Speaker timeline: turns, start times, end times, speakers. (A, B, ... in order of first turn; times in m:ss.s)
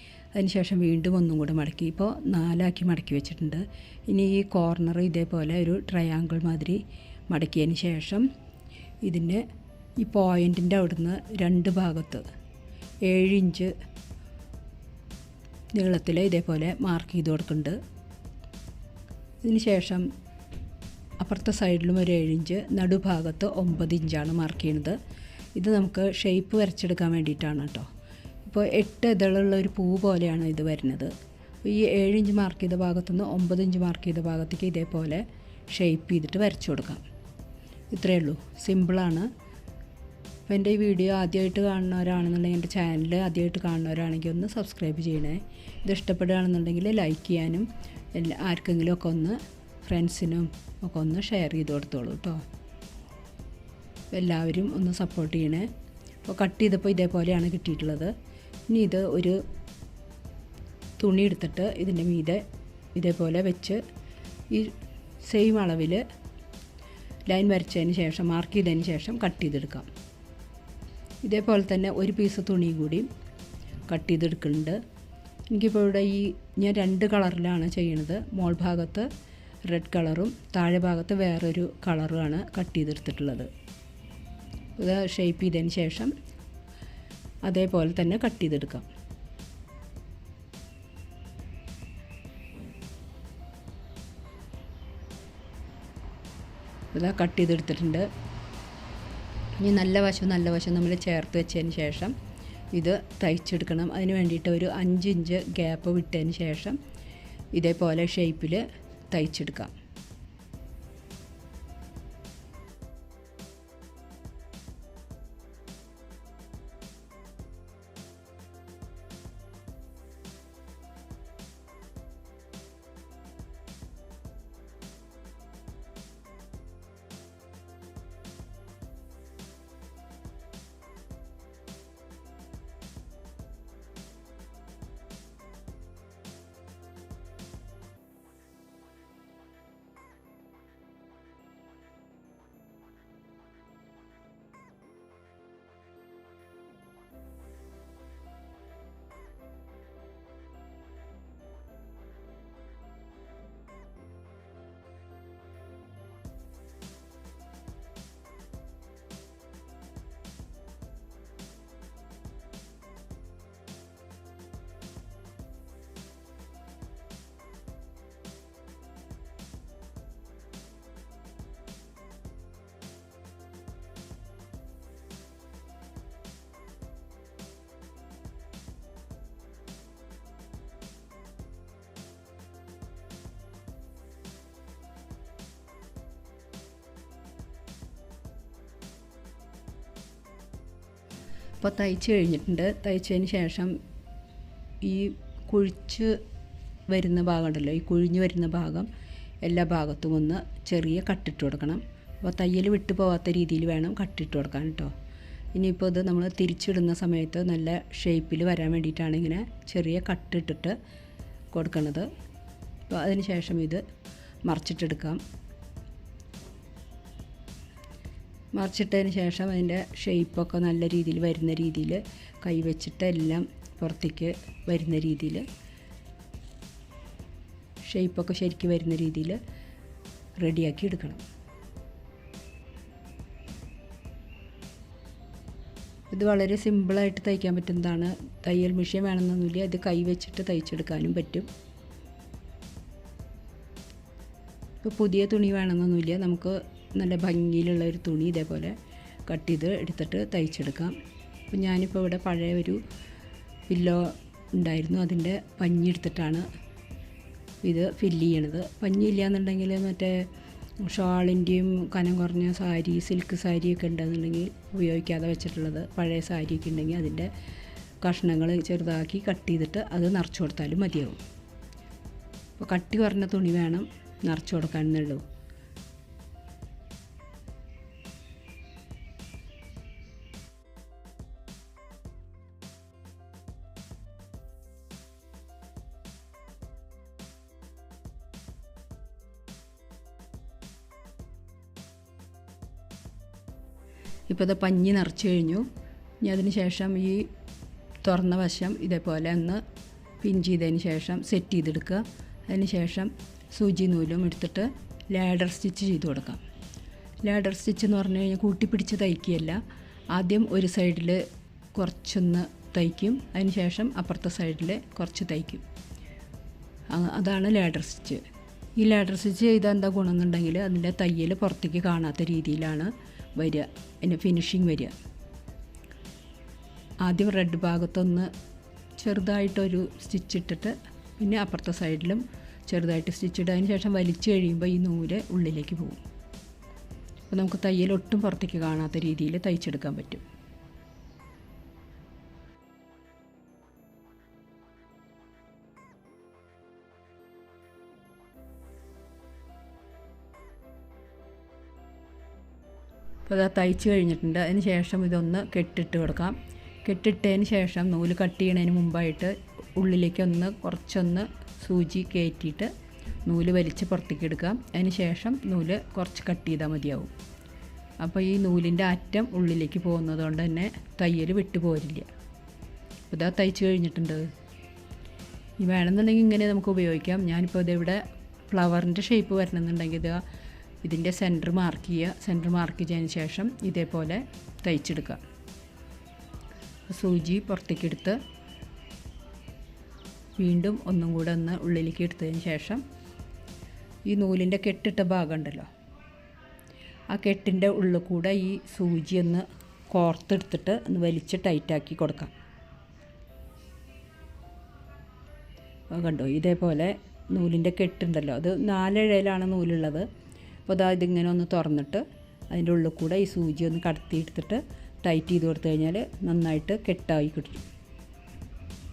0:00.3-0:08.3 A
0:09.0-0:09.4 A
0:10.0-0:12.2 A
0:13.0-0:13.7 A
0:15.7-0:17.8 A
0:19.4-0:20.1 A
0:21.2-0:25.0 A
0:25.6-0:27.9 A
0:28.4-0:31.1 A
0:31.6-0:37.0 A
0:37.9-0:39.3 A
0:40.5-0:52.4 A
0:54.1-0:55.7 A
0:56.2-0:58.1 A
0:58.7-0:59.4 A
1:01.0-1:02.4 A
1:02.9-1:03.8 A
1:04.5-1:06.0 A
1:07.3-1:09.9 A
1:11.2-1:13.1 A
1:13.9-1:14.8 A
1:15.5-1:19.1 A
1:19.7-1:23.5 A
1:24.8-1:26.1 A
1:27.4-1:28.9 A
1:36.9-1:38.1 A
1:39.6-1:42.1 A
1:42.7-1:46.8 A
1:47.6-1:49.7 A
3:11.6-3:13.8 A
3:14.8-3:16.2 A
3:16.9-3:18.9 A
3:19.4-3:24.9 A
3:25.5-3:30.8 A
3:31.5-3:32.1 A
3:32.9-3:33.8 A
3:34.5-3:35.2 A
3:38.5-3:45.4 A
3:47.8-3:49.4 A
3:50.4-3:51.2 A
3:56.1-4:01.5 A
4:04.8-4:08.8 A
4:09.3-4:11.0 A
4:11.5-4:12.8 A
4:13.7-4:16.5 A
4:17.6-4:20.3 A
4:20.8-4:27.3 A
4:28.0-4:31.2 A
4:32.6-4:35.2 A
4:54.3-4:55.7 A
4:56.2-4:57.3 A
4:58.0-4:59.6 A
5:00.2-5:06.4 A
5:07.2-5:09.6 A
5:10.1-5:11.2 A
5:11.7-5:15.6 A
5:16.9-5:18.2 A
5:18.8-5:24.9 A
5:27.0-5:28.3 A
5:29.0-5:36.0 A
5:37.3-5:40.2 A
5:53.2-6:02.7 A
6:03.2-6:07.1 A
6:08.0-6:12.1 A
6:13.1-6:14.3 A
6:15.6-6:20.2 A
6:20.8-6:25.2 A
6:26.9-6:28.2 A
6:30.4-6:32.8 A
6:34.0-6:35.7 A
6:37.1-6:42.3 A
6:45.9-6:50.1 A
6:50.6-6:57.6 A